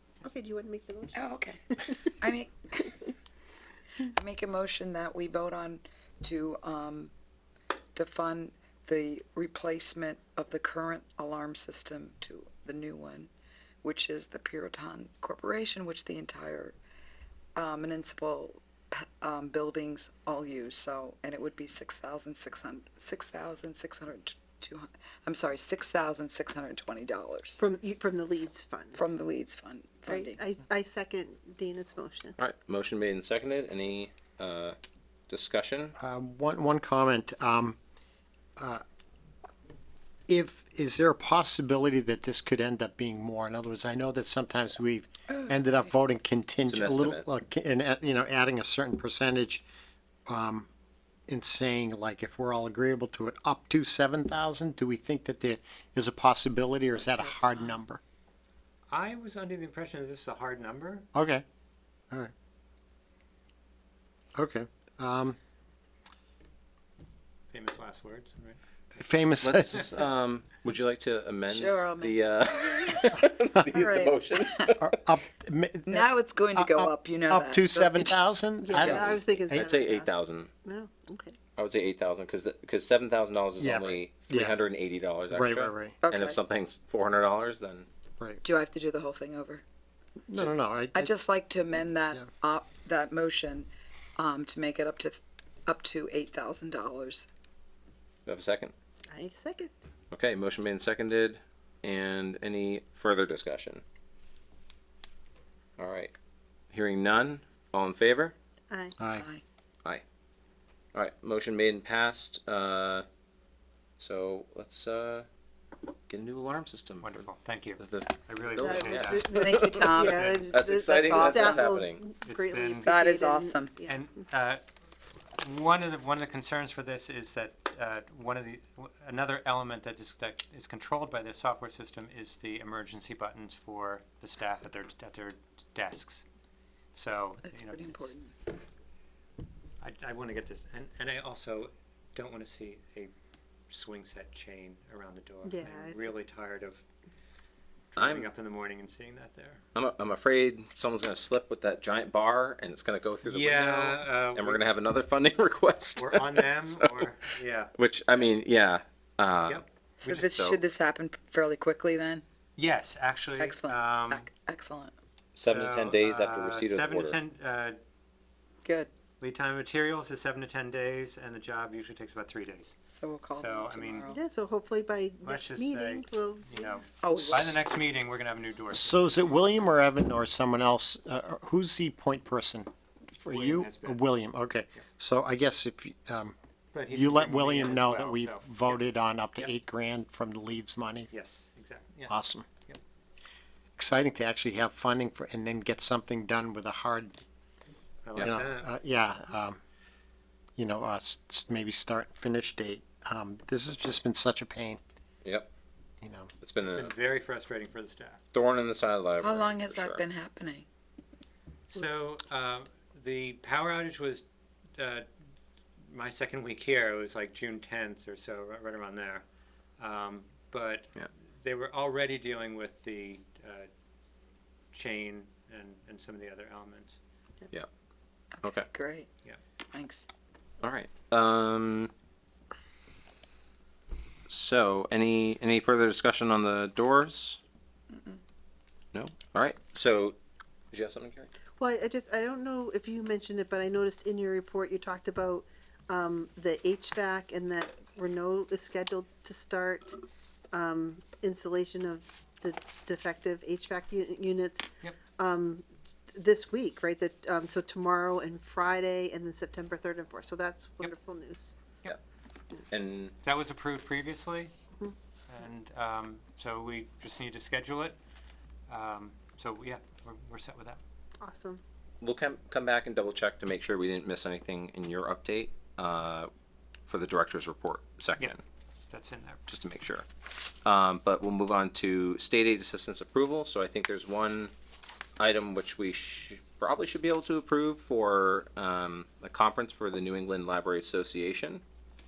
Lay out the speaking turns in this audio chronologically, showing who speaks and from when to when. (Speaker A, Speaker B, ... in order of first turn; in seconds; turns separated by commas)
Speaker A: 0.2-2.3, Speaker B: 1.1-1.6, Speaker B: 2.2-3.1, Speaker B: 4.0-7.1, Speaker B: 8.0-13.3, Speaker B: 13.8-16.8, Speaker B: 17.6-27.6, Speaker A: 27.6-29.1, Speaker B: 28.9-30.4, Speaker A: 30.1-32.4, Speaker C: 32.4-34.8, Speaker C: 35.3-36.0, Speaker D: 36.0-37.8, Speaker D: 38.6-38.8, Speaker D: 40.3-49.6, Speaker B: 45.3-45.9, Speaker C: 46.7-47.3, Speaker D: 50.3-50.7, Speaker D: 51.3-58.0, Speaker B: 57.0-57.8, Speaker E: 58.9-61.1, Speaker D: 61.1-61.4, Speaker D: 64.3-65.4, Speaker E: 67.5-68.6, Speaker D: 69.0-70.0, Speaker C: 69.4-74.9, Speaker B: 71.5-73.1, Speaker B: 73.7-74.7, Speaker D: 74.8-79.7, Speaker B: 75.9-79.3, Speaker A: 78.6-81.4, Speaker C: 79.5-80.5, Speaker C: 81.6-87.9, Speaker D: 83.6-84.6, Speaker D: 85.3-86.0, Speaker B: 86.0-86.4, Speaker B: 88.4-89.6, Speaker D: 90.3-91.2, Speaker B: 90.9-97.3, Speaker C: 98.3-98.7, Speaker A: 99.1-99.7, Speaker C: 100.1-103.8, Speaker C: 105.8-106.1, Speaker C: 106.7-108.3, Speaker A: 108.7-109.0, Speaker D: 109.0-109.2, Speaker B: 109.2-109.4, Speaker C: 110.9-113.1, Speaker C: 114.0-115.3, Speaker C: 116.1-122.0, Speaker E: 117.0-119.3, Speaker A: 118.6-124.1, Speaker B: 118.8-120.2, Speaker B: 120.9-121.7, Speaker E: 122.3-122.9, Speaker B: 122.8-123.8, Speaker E: 123.9-124.6, Speaker E: 125.4-136.2, Speaker E: 136.9-138.1, Speaker B: 137.5-138.3, Speaker E: 139.8-143.1, Speaker E: 143.7-146.8, Speaker A: 145.4-146.2, Speaker E: 147.9-149.6, Speaker C: 148.0-148.3, Speaker C: 149.8-157.1, Speaker E: 153.2-154.7, Speaker E: 156.0-158.3, Speaker C: 157.8-159.6, Speaker E: 159.5-160.4, Speaker B: 160.0-162.2, Speaker C: 160.3-160.6, Speaker E: 162.6-164.3, Speaker B: 163.4-164.9, Speaker C: 165.4-167.2, Speaker E: 165.4-167.8, Speaker B: 168.6-168.9, Speaker E: 169.2-172.8, Speaker B: 172.9-174.2, Speaker E: 173.3-174.1, Speaker A: 174.1-177.5, Speaker E: 175.2-179.4, Speaker B: 177.0-177.6, Speaker D: 178.7-186.3, Speaker E: 183.3-184.1, Speaker E: 186.7-188.8, Speaker D: 186.9-191.1, Speaker E: 191.1-192.2, Speaker D: 192.1-192.5, Speaker D: 193.8-197.2, Speaker E: 198.1-198.7, Speaker D: 198.2-199.6, Speaker D: 200.6-204.8, Speaker C: 205.2-205.5, Speaker D: 206.0-206.3, Speaker C: 206.4-206.9, Speaker E: 206.7-208.2, Speaker C: 208.3-210.1, Speaker B: 209.2-210.7, Speaker E: 211.7-214.2, Speaker E: 214.8-215.1, Speaker E: 215.8-219.2, Speaker E: 219.8-223.7, Speaker E: 224.7-227.0, Speaker B: 228.4-229.1, Speaker C: 228.4-228.7, Speaker B: 229.7-230.1, Speaker C: 230.6-231.9, Speaker C: 234.3-237.4, Speaker B: 237.9-238.2, Speaker C: 238.9-240.2, Speaker C: 240.7-241.3, Speaker A: 241.6-250.0, Speaker A: 250.5-261.6, Speaker C: 262.7-263.1, Speaker E: 263.2-264.5, Speaker E: 265.3-268.0, Speaker E: 268.7-270.8, Speaker A: 271.2-271.6, Speaker C: 272.0-276.3, Speaker C: 276.9-278.4, Speaker E: 278.9-279.4, Speaker C: 279.5-280.1, Speaker C: 280.6-284.5, Speaker C: 285.2-291.6